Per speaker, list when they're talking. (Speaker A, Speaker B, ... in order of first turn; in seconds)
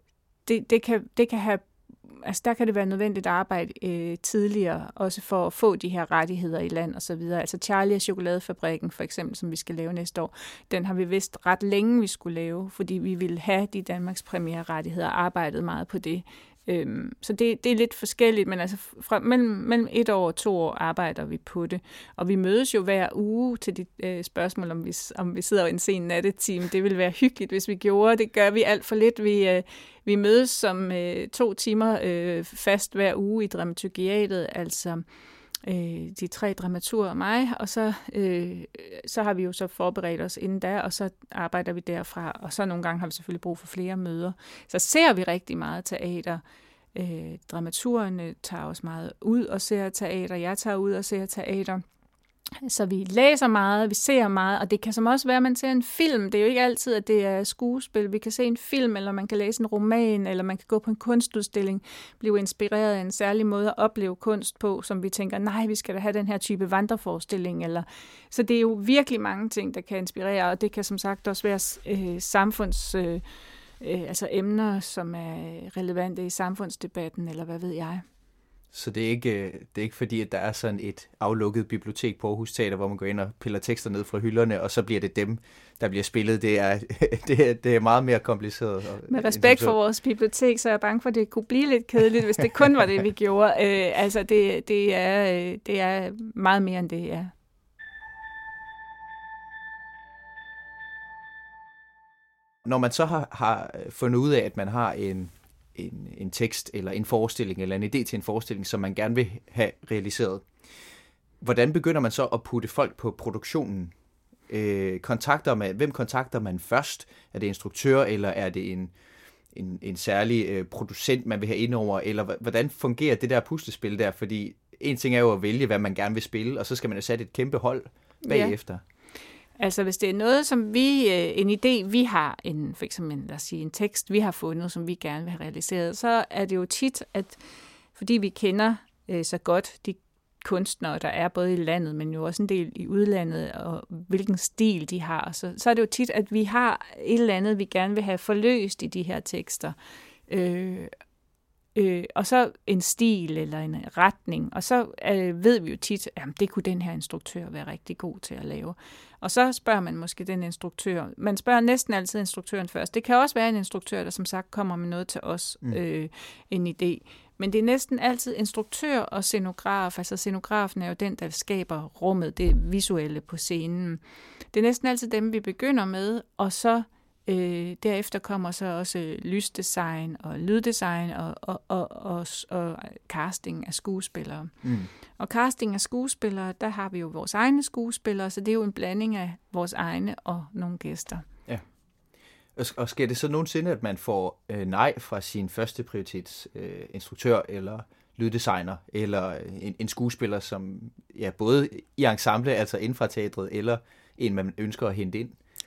Speaker A: 0.5-35.0, 35.6-46.4, 46.9-51.8, 52.6-73.2, 73.8-78.0, 89.1-97.3, 128.2-128.5, 129.6-137.4, 137.9-149.8, 150.3-150.9, 151.7-184.5, 185.2-191.2
Speaker B: 78.7-89.8, 102.6-110.5, 111.4-113.9, 114.5-118.9, 119.5-128.8, 184.6-184.9, 192.6-205.4